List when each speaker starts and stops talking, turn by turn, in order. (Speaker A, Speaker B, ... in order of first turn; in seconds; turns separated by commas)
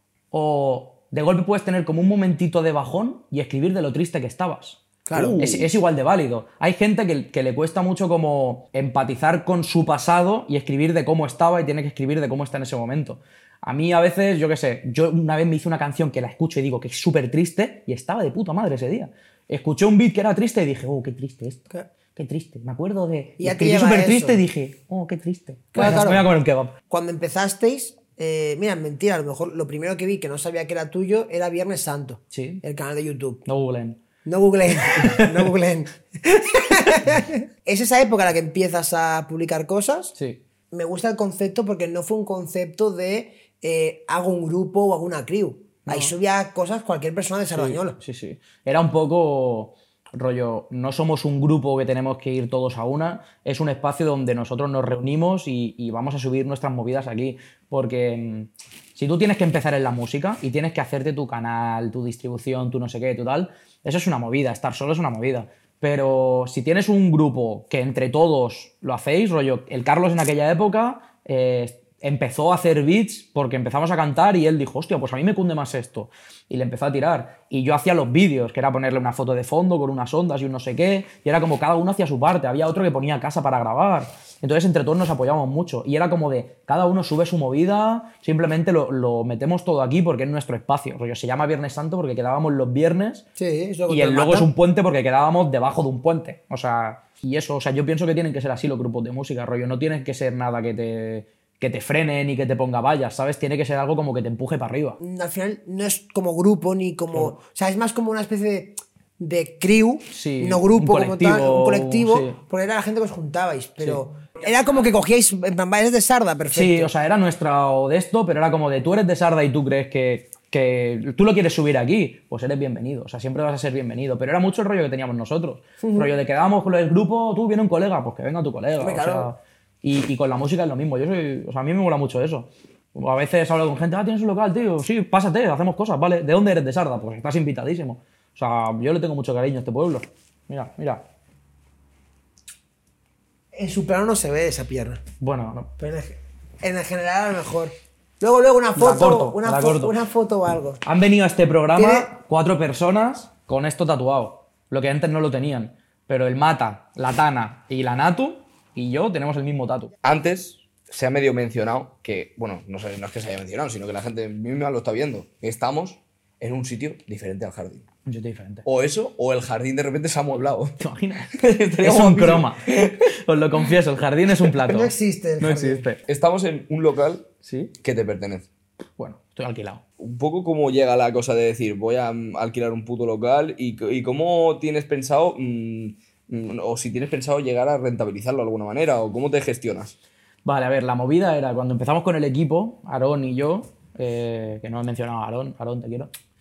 Speaker A: 0.3-26.7, Speaker B: 5.1-5.5, Speaker C: 5.2-5.6, Speaker B: 23.4-24.4, Speaker B: 25.7-26.3, Speaker B: 26.9-33.4, Speaker A: 32.3-32.6, Speaker A: 33.4-34.0, Speaker B: 34.2-40.1, Speaker A: 35.0-35.5, Speaker A: 40.1-40.4, Speaker B: 40.7-48.0, Speaker A: 45.9-46.1, Speaker A: 47.5-93.2, Speaker B: 93.4-94.5, Speaker A: 93.9-105.0, Speaker B: 105.0-116.9, Speaker A: 110.1-112.4, Speaker A: 116.5-141.0, Speaker B: 125.8-126.1, Speaker B: 128.8-129.3, Speaker B: 143.5-145.0, Speaker A: 145.2-145.7, Speaker B: 145.8-150.8, Speaker A: 148.8-149.9, Speaker A: 150.8-159.9, Speaker B: 151.8-152.1, Speaker C: 160.0-167.8, Speaker A: 168.0-168.6, Speaker C: 168.6-170.8, Speaker A: 170.8-176.0, Speaker C: 171.3-172.9, Speaker B: 174.6-175.8, Speaker C: 176.1-178.5, Speaker A: 177.4-177.7, Speaker A: 179.0-179.8, Speaker C: 180.0-189.9, Speaker A: 190.4-196.1